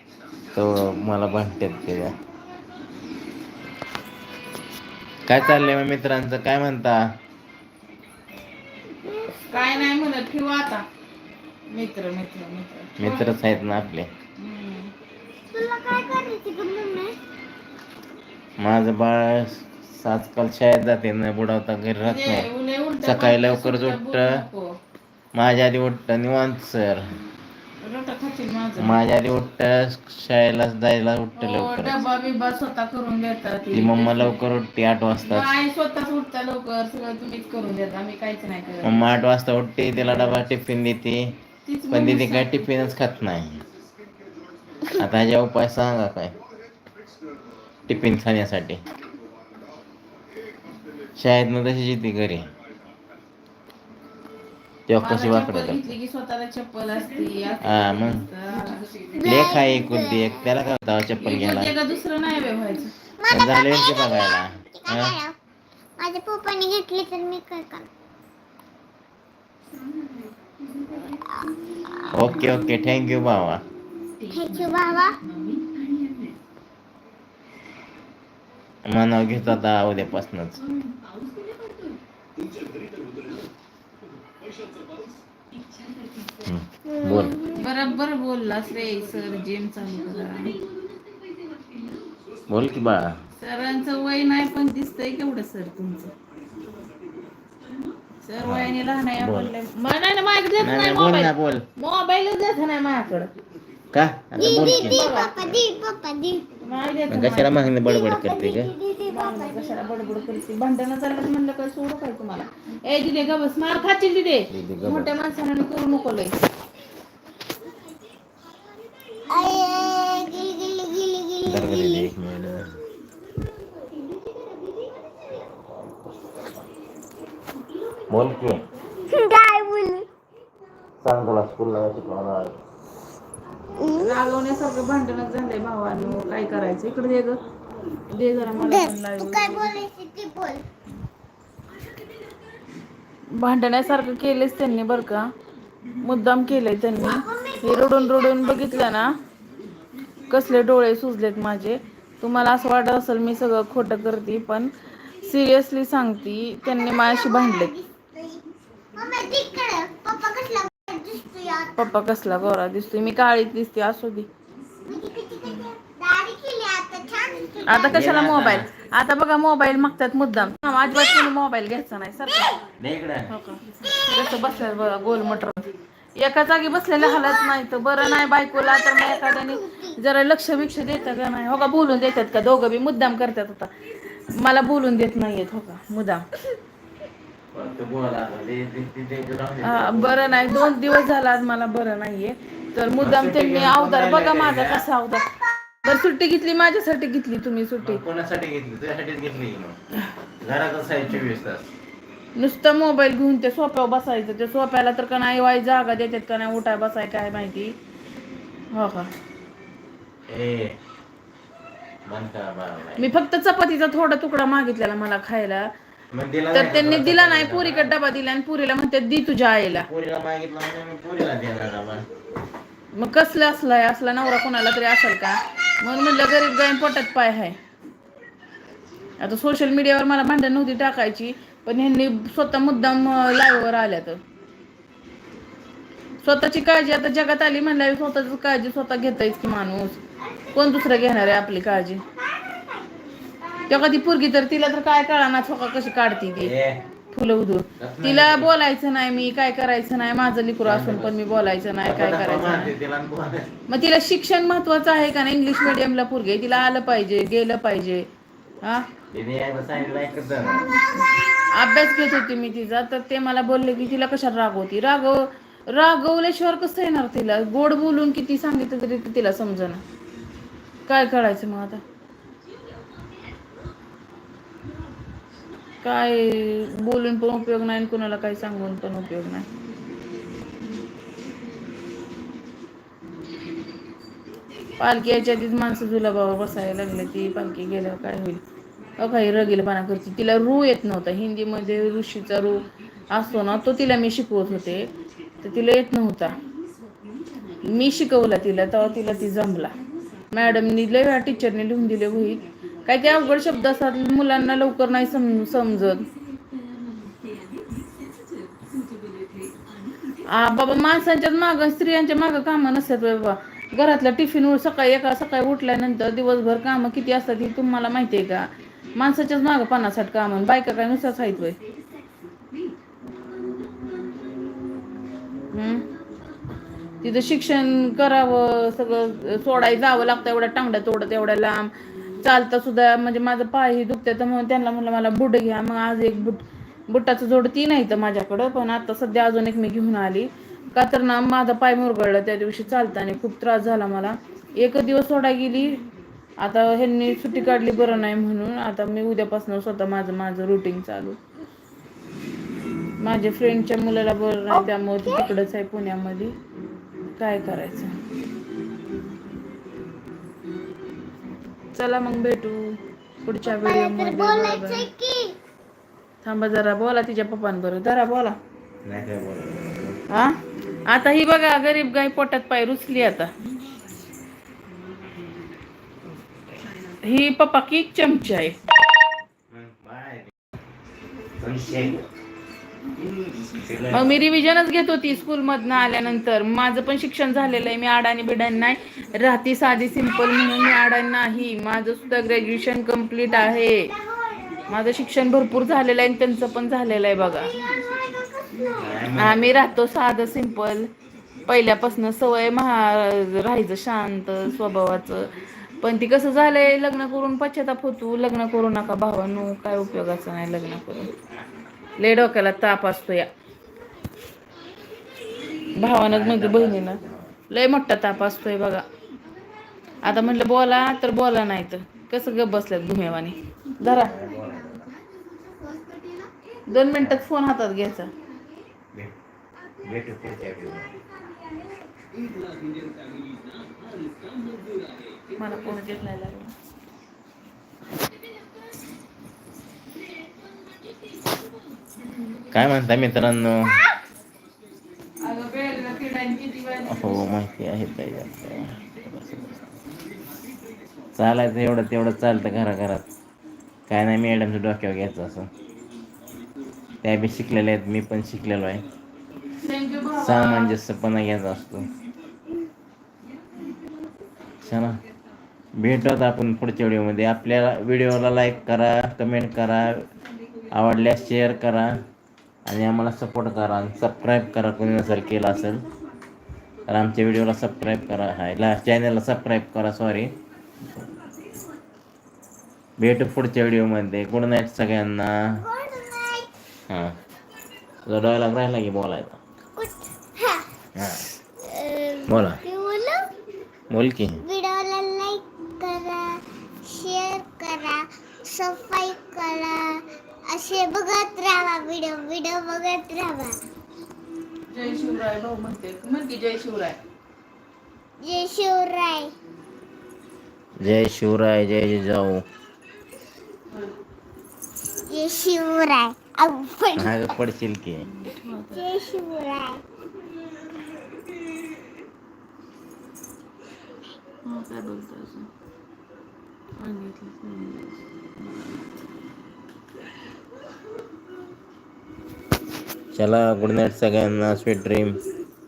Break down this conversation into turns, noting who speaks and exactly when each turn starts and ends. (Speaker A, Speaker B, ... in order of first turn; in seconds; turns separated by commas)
Speaker A: 0.5-2.2, Speaker A: 5.2-7.1, Speaker B: 9.1-9.4, Speaker C: 9.5-10.9, Speaker C: 11.7-13.3, Speaker A: 13.0-14.1, Speaker C: 14.4-14.9, Speaker B: 15.5-17.2, Speaker A: 18.6-22.5, Speaker C: 22.1-24.7, Speaker A: 23.0-24.4, Speaker A: 25.4-27.1, Speaker C: 27.8-29.0, Speaker A: 28.8-32.0, Speaker C: 31.4-34.4, Speaker A: 33.7-35.5, Speaker C: 35.2-39.2, Speaker A: 38.8-41.4, Speaker C: 40.1-40.3, Speaker C: 41.6-42.7, Speaker A: 41.9-43.6, Speaker A: 44.9-46.4, Speaker A: 47.9-48.8, Speaker A: 51.1-52.5, Speaker A: 54.9-55.9, Speaker C: 55.0-58.9, Speaker A: 57.6-58.3, Speaker B: 59.1-60.6, Speaker A: 59.2-61.7, Speaker C: 61.2-62.9, Speaker B: 63.2-65.3, Speaker A: 63.3-65.2, Speaker B: 66.0-67.9, Speaker B: 71.0-72.3, Speaker A: 72.1-73.6, Speaker B: 74.2-75.2, Speaker A: 78.9-80.6, Speaker A: 86.4-87.4, Speaker B: 86.9-87.7, Speaker C: 87.5-90.6, Speaker A: 92.5-93.2, Speaker C: 93.4-96.1, Speaker C: 98.2-103.3, Speaker A: 98.4-99.5, Speaker A: 100.6-101.7, Speaker A: 103.9-105.1, Speaker B: 104.4-106.5, Speaker C: 104.4-105.4, Speaker C: 106.6-107.7, Speaker A: 107.1-108.7, Speaker B: 107.8-109.8, Speaker C: 109.1-116.4, Speaker A: 114.5-115.1, Speaker B: 119.3-122.1, Speaker A: 121.5-122.8, Speaker A: 128.1-128.7, Speaker B: 129.1-130.1, Speaker A: 131.0-132.6, Speaker B: 133.8-134.3, Speaker C: 133.9-137.4, Speaker C: 138.1-139.7, Speaker B: 138.6-140.6, Speaker C: 143.3-145.3, Speaker C: 146.0-149.2, Speaker B: 147.0-149.0, Speaker C: 150.3-154.7, Speaker C: 155.2-157.7, Speaker B: 156.6-158.4, Speaker B: 158.9-161.9, Speaker C: 161.8-164.3, Speaker B: 164.8-168.1, Speaker C: 167.7-172.6, Speaker A: 167.9-168.7, Speaker A: 172.8-173.3, Speaker C: 173.3-183.7, Speaker B: 177.0-180.0, Speaker C: 184.3-186.3, Speaker A: 187.5-190.2, Speaker C: 189.6-198.0, Speaker A: 193.0-194.9, Speaker A: 197.8-199.8, Speaker A: 200.4-201.7, Speaker C: 202.4-207.8, Speaker C: 208.7-209.1, Speaker A: 210.3-210.8, Speaker A: 212.1-213.1, Speaker C: 213.0-215.7, Speaker A: 216.1-217.9, Speaker C: 216.5-219.9, Speaker A: 219.7-222.1, Speaker C: 222.9-227.6, Speaker C: 229.2-234.2, Speaker C: 236.2-240.0, Speaker B: 240.2-240.7, Speaker C: 240.5-242.0, Speaker B: 242.1-244.2, Speaker C: 243.7-246.5, Speaker A: 246.4-246.8, Speaker C: 247.1-252.7, Speaker A: 247.8-248.5, Speaker A: 250.6-251.2, Speaker A: 251.8-253.5, Speaker C: 253.7-258.1, Speaker A: 259.1-260.8, Speaker C: 261.5-269.8, Speaker C: 270.9-271.8, Speaker C: 275.8-279.4, Speaker C: 284.8-288.4, Speaker C: 289.0-296.4, Speaker C: 297.6-299.8, Speaker C: 300.3-306.1, Speaker C: 310.3-321.6, Speaker C: 325.5-325.9, Speaker C: 327.0-345.8, Speaker C: 346.4-351.2, Speaker C: 353.0-356.4, Speaker B: 354.5-355.3, Speaker C: 357.2-357.9, Speaker C: 361.8-364.9, Speaker B: 363.4-365.4, Speaker C: 366.2-368.4, Speaker A: 368.9-370.0, Speaker C: 370.1-370.4, Speaker C: 370.9-373.3, Speaker C: 377.0-378.6, Speaker A: 379.5-380.3, Speaker A: 381.4-382.1, Speaker A: 383.1-384.2, Speaker C: 383.9-393.9, Speaker B: 393.3-394.7, Speaker C: 394.7-397.5, Speaker B: 397.2-399.2, Speaker A: 398.8-399.8, Speaker C: 399.2-400.9, Speaker C: 401.5-411.1, Speaker C: 412.0-413.3, Speaker C: 415.8-418.9, Speaker A: 416.0-417.3, Speaker C: 420.0-424.2, Speaker A: 423.9-424.9, Speaker B: 425.7-426.0, Speaker C: 426.7-428.1, Speaker A: 427.0-427.3, Speaker A: 429.8-430.9, Speaker C: 435.4-436.5, Speaker A: 442.5-443.8, Speaker C: 445.2-447.3, Speaker A: 446.9-449.7, Speaker A: 451.1-453.1, Speaker A: 453.9-455.5, Speaker A: 457.0-458.8, Speaker C: 459.6-460.8, Speaker A: 460.2-461.9, Speaker A: 464.6-465.0, Speaker A: 465.8-470.1, Speaker A: 470.7-472.0, Speaker A: 472.6-475.9, Speaker A: 476.9-480.4, Speaker A: 483.0-485.6, Speaker B: 485.6-486.5, Speaker A: 486.9-487.1, Speaker A: 488.1-489.4, Speaker B: 489.8-490.7, Speaker A: 490.9-491.3, Speaker B: 491.6-493.4, Speaker A: 492.3-492.6, Speaker A: 493.9-494.4, Speaker B: 494.4-503.6, Speaker C: 504.7-507.0, Speaker B: 508.2-509.3, Speaker A: 510.8-512.5, Speaker B: 515.1-517.4, Speaker A: 516.9-518.1, Speaker C: 518.0-518.9, Speaker B: 518.7-519.8, Speaker C: 524.5-525.5, Speaker C: 526.8-528.0, Speaker A: 533.1-535.2